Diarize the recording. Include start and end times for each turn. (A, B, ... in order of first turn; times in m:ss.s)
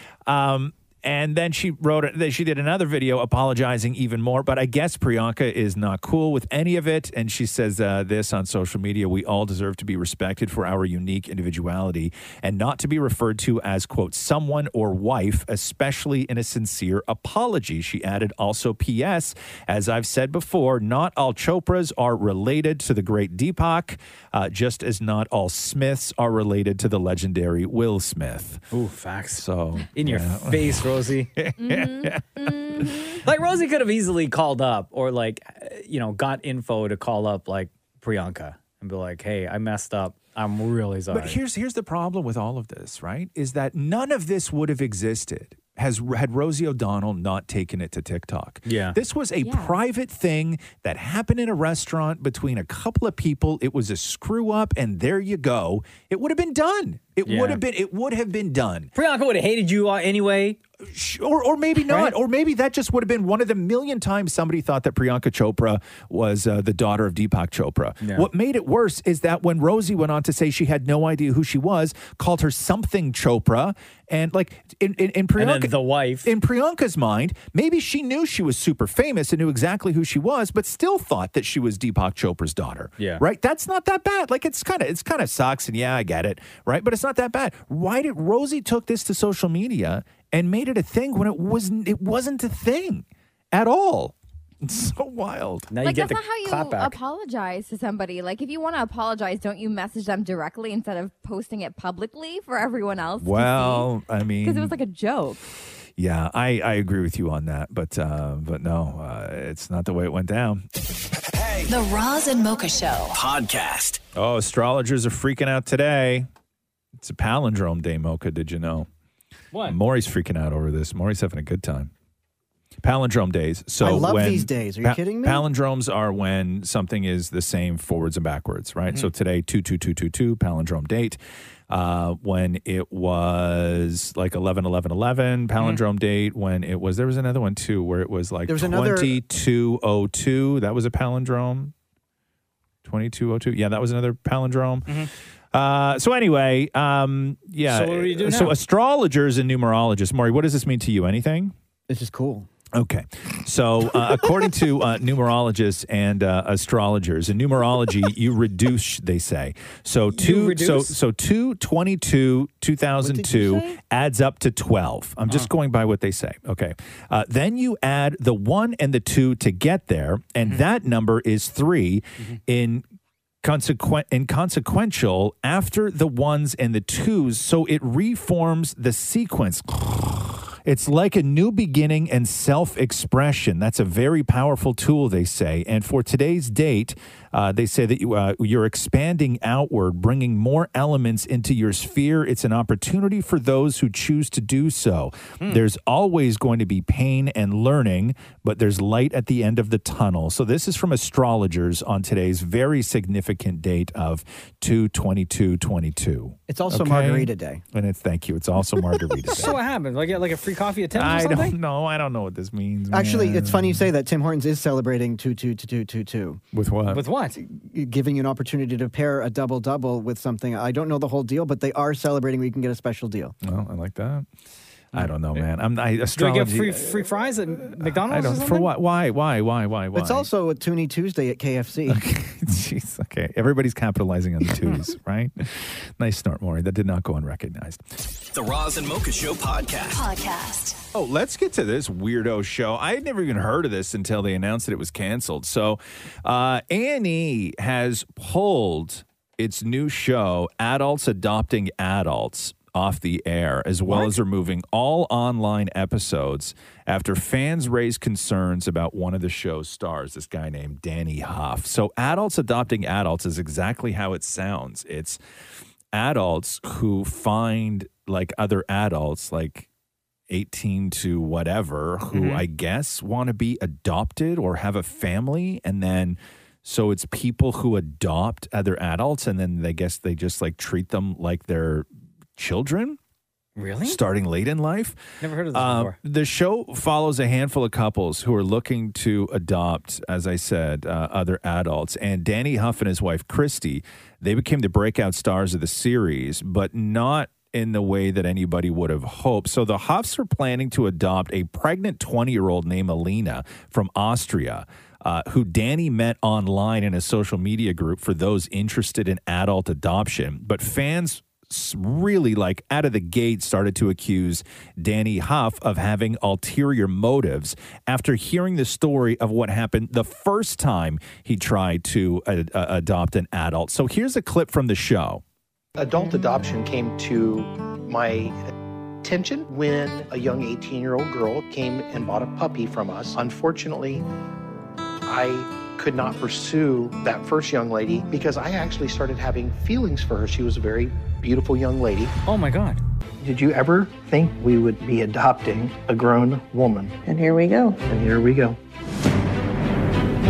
0:00.2-0:28.6 A
0:28.7-0:29.4 B
0:29.3-0:33.0 A
0:29.9-0:31.3 B
0:31.6-0:33.2 C
0:33.2-0:41.4 B
0:41.1-0:58.9 A
0:48.6-0:49.0 B
0:49.4-0:49.8 C
0:57.2-0:57.6 B
0:58.9-1:00.6 B
1:00.8-1:35.7 A
1:01.8-1:02.1 B
1:08.0-1:08.3 B
1:15.4-1:16.3 B
1:23.0-1:23.2 B
1:35.7-1:37.0 B
1:35.8-1:43.9 C
1:43.2-1:44.8 A
1:44.4-1:45.4 C
1:46.0-1:50.6 A
1:51.4-1:51.7 D
1:51.7-1:53.2 E
1:53.1-1:54.0 D
1:54.1-1:56.3 A
1:57.0-1:58.9 A
1:59.5-1:59.8 B
1:59.6-2:01.9 A
2:02.8-2:21.7 A
2:03.8-2:05.4 F
2:18.5-2:19.1 F
2:22.8-2:31.5 A
2:27.7-2:28.6 B
2:31.9-2:32.5 F
2:32.7-2:52.8 A
2:40.1-2:41.0 B
2:43.0-2:43.7 F
2:53.4-3:29.6 A
3:26.5-3:27.6 F
3:29.3-3:31.5 B
3:30.9-3:33.9 A
3:32.9-3:36.4 F
3:36.5-3:37.0 A
3:36.9-3:37.4 B
3:37.4-3:43.3 F
3:43.4-3:44.3 A
3:44.9-3:47.1 A
3:44.9-3:45.4 B
3:46.2-3:48.7 B
3:47.6-3:50.3 A
3:49.9-3:52.0 F
3:51.9-3:57.8 A
3:58.3-4:00.0 D
3:59.9-4:00.8 E
4:00.9-4:25.2 A
4:25.9-4:29.7 A
4:30.3-4:43.0 A
4:32.1-4:32.4 B
4:43.6-4:44.0 B
4:43.8-4:45.0 A
4:45.2-4:46.0 B
4:45.5-5:25.2 A
5:25.8-5:28.5 G
5:29.0-5:34.0 G
5:35.0-5:42.1 G
5:42.2-5:42.8 B
5:43.2-5:47.0 G
5:47.8-5:48.6 G